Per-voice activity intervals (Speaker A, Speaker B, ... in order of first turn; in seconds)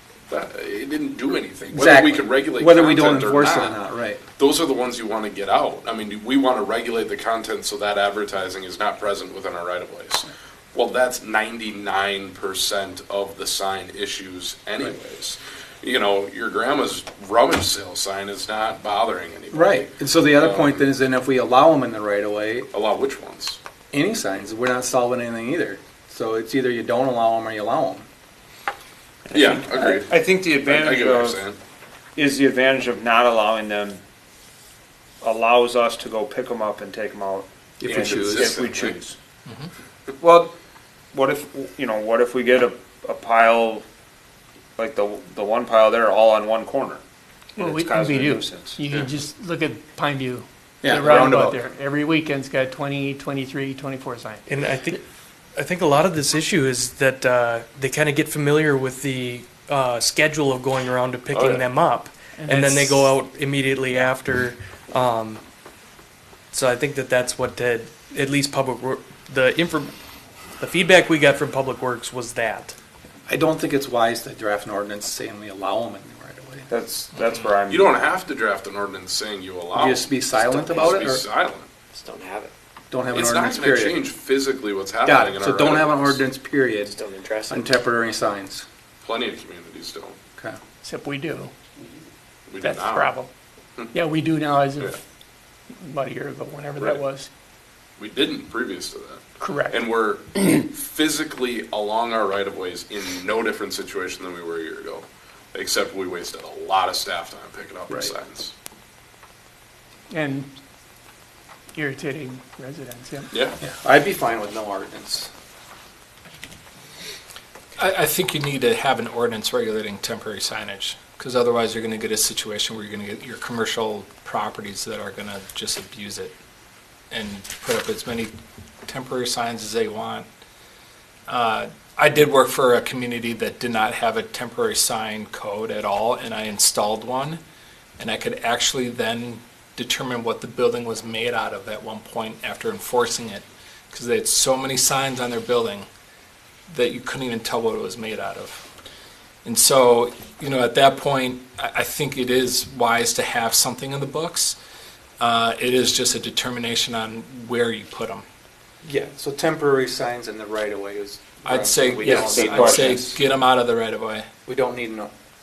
Speaker A: 0.3-20.9, 22.7-23.6, 29.3-31.6, 37.9-39.0, 61.3-61.6, 77.7-81.7, 83.1-86.2, 89.0-90.2, 92.5-93.1, 98.0-108.5
Speaker B: 1.7-4.2, 19.5-22.7, 23.9-28.1, 37.8-38.5, 50.8-51.6, 73.3-76.7, 79.7-81.2, 82.9-84.0, 85.0-86.9, 87.5-88.7, 113.6-115.3, 158.8-163.2, 164.5-165.1
Speaker C: 29.3-31.4, 32.2-34.0, 35.2-39.1, 40.2-40.5, 41.1-43.8, 44.8-47.0, 47.6-48.8, 76.7-78.0, 162.1-162.9
Speaker D: 47.6-54.5, 62.4-63.1, 90.8-91.5, 92.6-93.3, 93.9-95.0, 95.8-97.3, 99.4-99.8, 110.1-110.5, 111.8-113.3
Speaker E: 54.5-55.0, 55.5-65.4, 66.5-70.0, 70.6-72.8
Speaker F: 77.2-77.5, 117.8-126.3, 127.1-128.3, 128.9-130.3, 131.3-137.4, 138.0-145.9, 146.7-148.7, 149.4-154.6, 155.2-158.2, 161.4-164.3
Speaker G: 80.5-80.8, 81.9-82.5, 86.8-87.8